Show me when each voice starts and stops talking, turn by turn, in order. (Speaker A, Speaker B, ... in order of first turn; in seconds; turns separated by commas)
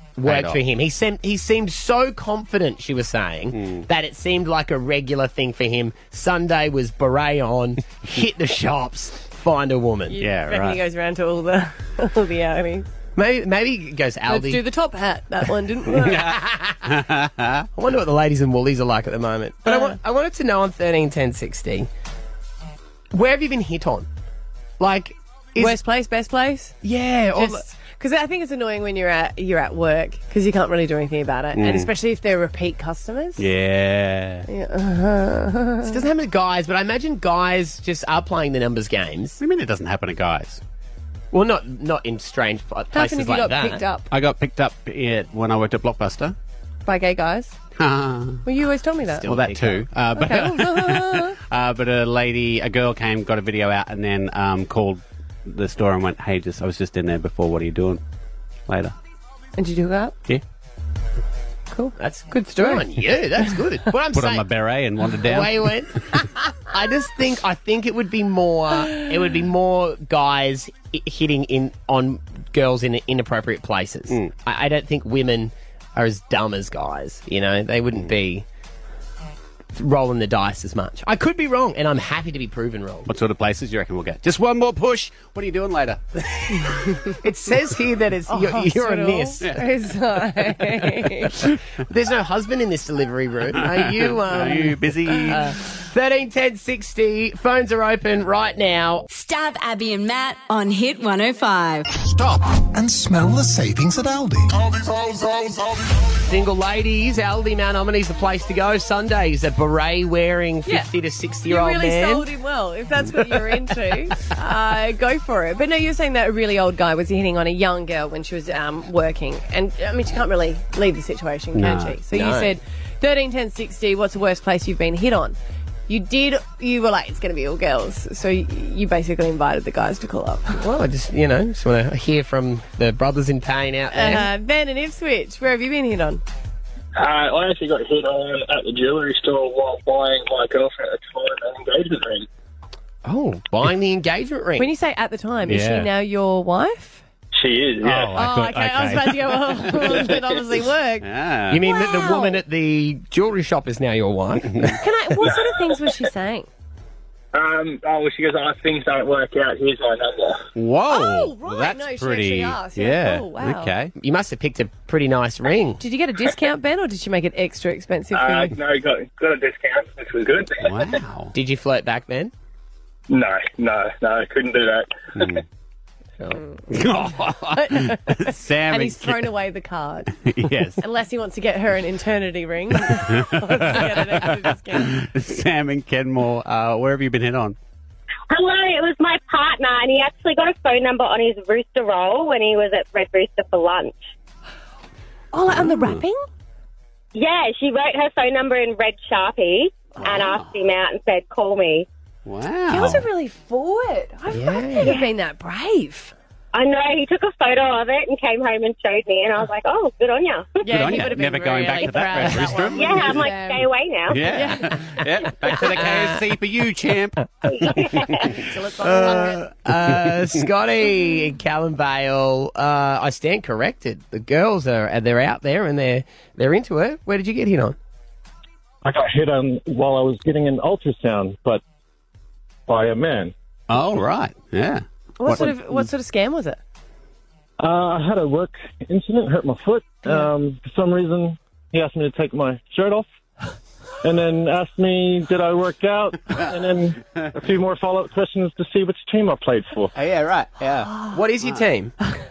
Speaker A: 0.2-10.2, Speaker B: 0.2-0.6, Speaker B: 3.5-3.9, Speaker C: 10.1-12.9, Speaker B: 10.2-10.8, Speaker A: 13.2-14.6, Speaker C: 14.3-16.3, Speaker B: 16.0-17.7, Speaker A: 16.1-16.8, Speaker A: 17.8-21.9, Speaker C: 19.6-20.0, Speaker A: 23.1-24.1, Speaker A: 24.8-25.8, Speaker C: 25.6-26.8, Speaker A: 26.8-27.6, Speaker C: 27.4-33.5, Speaker B: 31.5-31.9, Speaker B: 33.4-34.5, Speaker C: 34.5-36.0, Speaker A: 35.9-39.4, Speaker B: 39.4-40.6, Speaker A: 41.3-43.8, Speaker C: 42.9-44.1, Speaker B: 44.1-46.4, Speaker C: 46.9-47.6, Speaker B: 47.8-48.4, Speaker C: 48.5-49.3, Speaker A: 49.2-49.9, Speaker B: 49.2-58.0, Speaker C: 50.2-51.4, Speaker B: 58.7-58.9, Speaker C: 59.6-60.2, Speaker A: 62.0-64.5, Speaker C: 62.6-62.9, Speaker B: 64.1-65.8, Speaker A: 65.2-65.9, Speaker A: 66.7-78.5, Speaker A: 79.8-83.1, Speaker B: 83.1-87.0, Speaker A: 87.2-89.4, Speaker C: 88.3-91.3, Speaker A: 91.9-99.1, Speaker B: 93.6-95.6, Speaker D: 99.1-101.8, Speaker E: 102.1-105.6, Speaker A: 106.2-112.3, Speaker C: 111.5-125.4, Speaker B: 121.5-122.0, Speaker A: 122.1-122.5, Speaker C: 125.9-130.6, Speaker A: 130.5-134.3, Speaker C: 133.9-136.2, Speaker F: 137.0-142.3, Speaker A: 143.1-144.7, Speaker C: 144.6-147.0, Speaker B: 145.5-145.9, Speaker F: 147.3-148.1, Speaker B: 147.8-150.2, Speaker C: 148.1-151.1, Speaker B: 151.0-151.7, Speaker A: 151.5-154.8, Speaker C: 151.6-152.4, Speaker C: 154.8-156.5, Speaker F: 157.3-160.5, Speaker B: 160.6-163.9, Speaker C: 160.9-163.7, Speaker A: 164.0-165.8, Speaker C: 165.8-168.5, Speaker F: 168.1-171.0, Speaker B: 170.6-171.3, Speaker A: 171.3-172.3, Speaker F: 173.1-175.0, Speaker B: 175.2-175.4, Speaker B: 176.7-179.3, Speaker C: 177.5-180.1, Speaker B: 180.2-180.8, Speaker C: 180.8-184.9, Speaker B: 182.8-187.6, Speaker G: 188.3-194.0, Speaker C: 195.3-196.2, Speaker B: 195.5-196.0, Speaker G: 197.1-201.9, Speaker B: 200.1-200.5, Speaker B: 202.2-203.1, Speaker C: 202.7-206.1, Speaker A: 204.3-204.9, Speaker G: 206.5-210.7, Speaker C: 210.6-213.7, Speaker B: 210.7-213.3, Speaker G: 212.8-214.4, Speaker B: 214.1-218.3, Speaker C: 214.3-214.8, Speaker A: 215.5-216.3, Speaker G: 217.5-218.1, Speaker C: 218.0-219.4, Speaker B: 218.9-219.3, Speaker A: 218.9-227.8, Speaker B: 219.9-220.3, Speaker H: 228.8-231.6, Speaker H: 232.7-233.3, Speaker B: 233.7-235.9, Speaker C: 235.2-236.6, Speaker H: 237.6-243.1, Speaker C: 240.1-240.3, Speaker H: 244.0-249.9, Speaker B: 246.3-246.6, Speaker B: 249.9-251.7, Speaker A: 251.1-251.9